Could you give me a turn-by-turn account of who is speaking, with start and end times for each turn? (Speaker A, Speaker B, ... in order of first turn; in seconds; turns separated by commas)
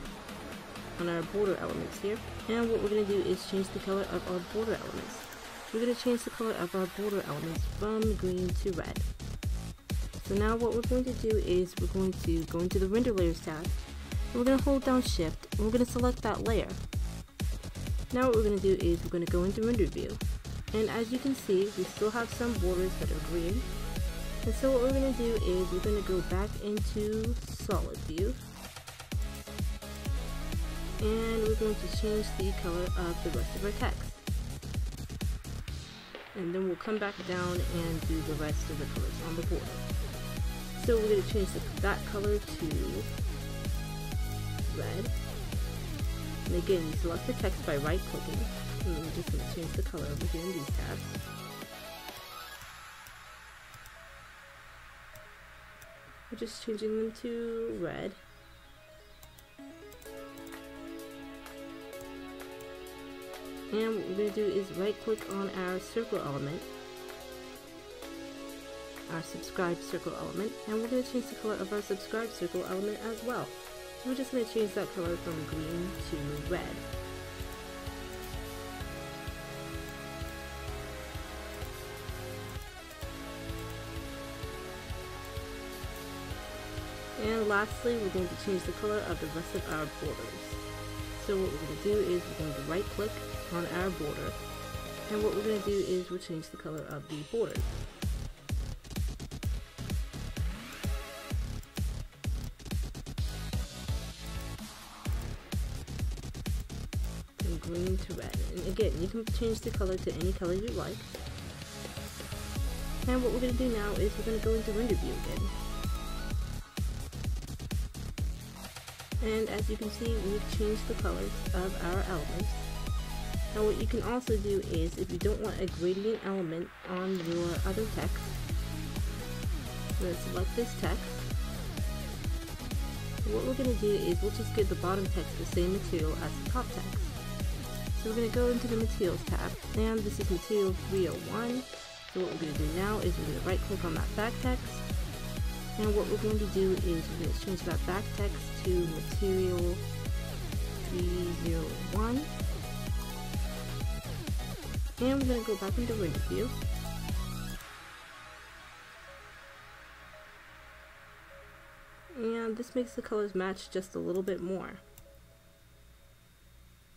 Speaker A: 1.0-9.1, Speaker A: 10.2-13.8, Speaker A: 14.3-16.8, Speaker A: 18.1-20.2, Speaker A: 20.7-23.7, Speaker A: 24.4-28.4, Speaker A: 31.0-34.2, Speaker A: 36.3-39.9, Speaker A: 40.8-43.1, Speaker A: 44.7-45.2, Speaker A: 46.5-51.2, Speaker A: 56.3-58.2, Speaker A: 63.7-66.7, Speaker A: 69.1-76.8, Speaker A: 87.2-90.6, Speaker A: 91.2-94.4, Speaker A: 95.1-97.7, Speaker A: 107.4-111.1, Speaker A: 113.0-115.5, Speaker A: 119.2-122.7, Speaker A: 123.5-128.4, Speaker A: 130.0-131.3, Speaker A: 133.2-137.2, Speaker A: 137.9-144.9, Speaker A: 145.8-149.8, Speaker A: 150.8-152.3, Speaker A: 155.0-156.6, Speaker A: 162.1-164.8